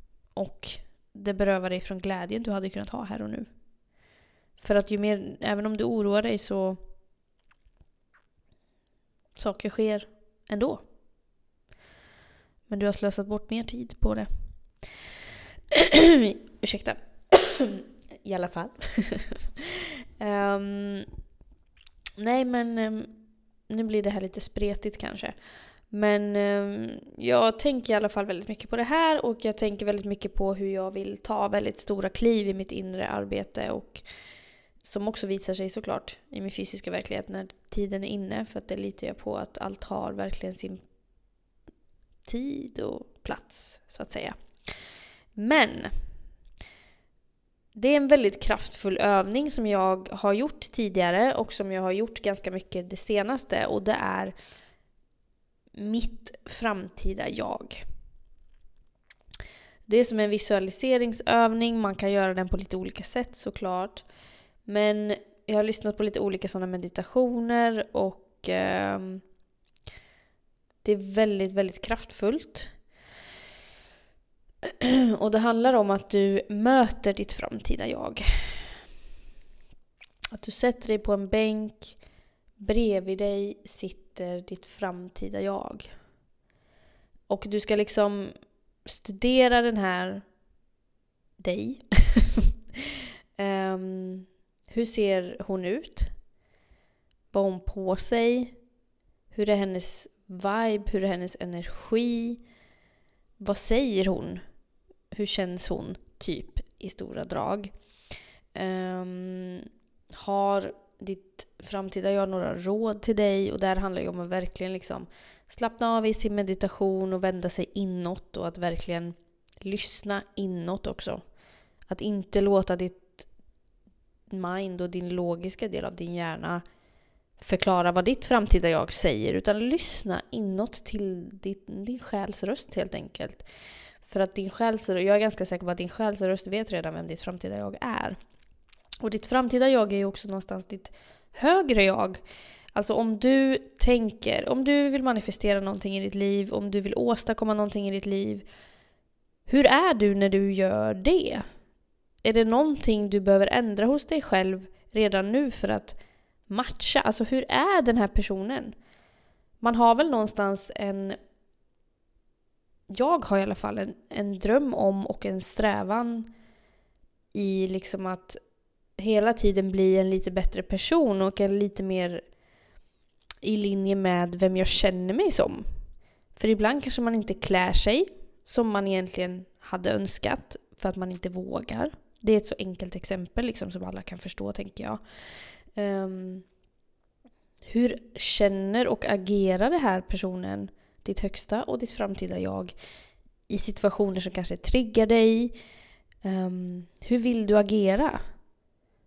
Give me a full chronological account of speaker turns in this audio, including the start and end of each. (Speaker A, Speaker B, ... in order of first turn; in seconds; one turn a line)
Speaker A: 0.3-3.5
Speaker A: 4.6-6.8
Speaker A: 9.3-10.8
Speaker A: 12.7-14.3
Speaker A: 15.7-21.1
Speaker A: 22.2-23.1
Speaker A: 23.7-25.3
Speaker A: 25.9-34.0
Speaker A: 34.8-40.8
Speaker A: 42.2-44.8
Speaker A: 45.4-45.9
Speaker A: 47.7-54.3
Speaker A: 55.7-57.8
Speaker A: 59.9-64.0
Speaker A: 64.6-69.2
Speaker A: 70.8-72.7
Speaker A: 74.7-78.8
Speaker A: 80.3-82.0
Speaker A: 82.6-85.9
Speaker A: 87.3-88.3
Speaker A: 88.8-90.2
Speaker A: 91.4-92.5
Speaker A: 93.4-96.1
Speaker A: 97.3-98.5
Speaker A: 99.3-102.4
Speaker A: 103.4-104.4
Speaker A: 105.1-107.7
Speaker A: 108.5-121.2
Speaker A: 121.9-123.2
Speaker A: 124.3-126.6
Speaker A: 127.4-133.4
Speaker A: 134.0-138.2
Speaker A: 139.0-142.2
Speaker A: 142.7-148.4
Speaker A: 149.5-151.4
Speaker A: 152.2-156.0
Speaker A: 156.5-158.7
Speaker A: 159.6-161.2
Speaker A: 162.9-166.3
Speaker A: 167.3-168.4
Speaker A: 169.0-172.2
Speaker A: 173.4-175.7
Speaker A: 176.3-185.0
Speaker A: 185.7-186.4
Speaker A: 187.7-192.7
Speaker A: 193.5-195.5
Speaker A: 196.2-198.2